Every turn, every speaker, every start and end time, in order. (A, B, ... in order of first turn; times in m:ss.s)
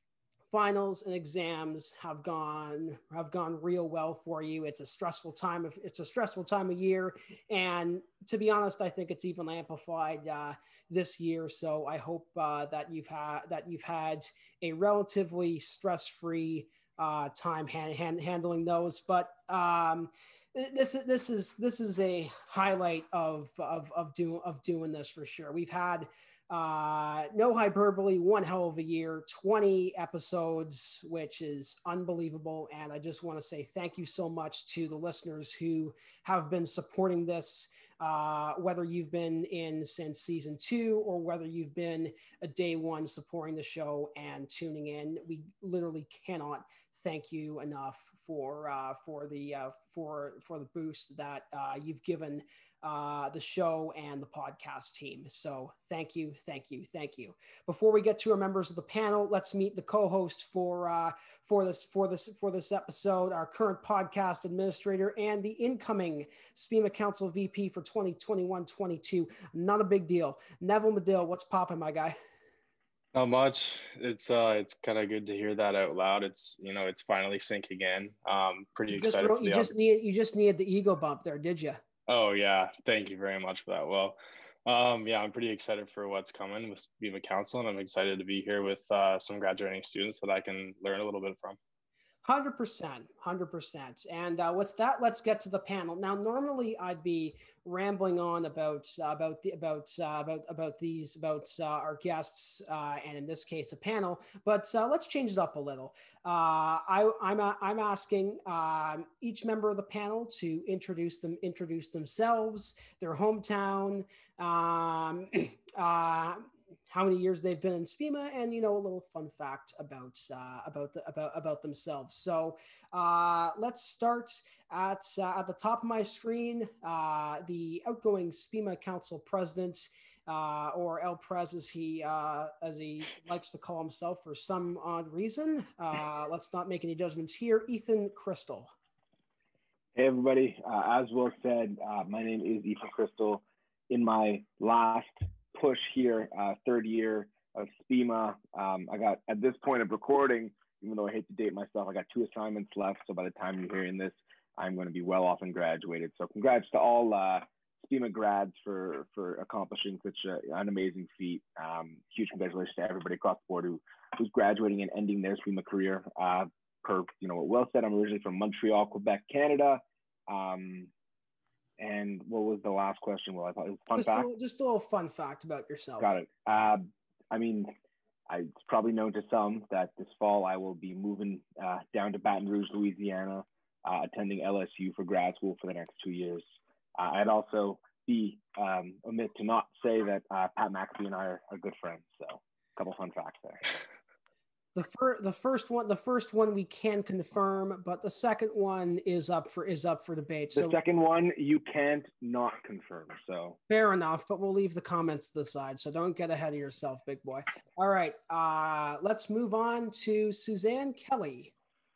0:00.5-1:12.2 A
1:13.1-1:19.8 B
1:18.9-1:21.8 A
1:22.1-1:31.6 B
1:32.2-2:18.7 A
2:20.0-2:50.9 C
2:51.8-2:54.3 C
2:54.0-2:56.1 A
2:56.0-2:57.7 C
2:58.3-3:06.4 C
3:07.0-3:13.6 C
3:14.8-3:20.8 A
3:20.6-3:23.6 C
3:23.7-3:31.5 A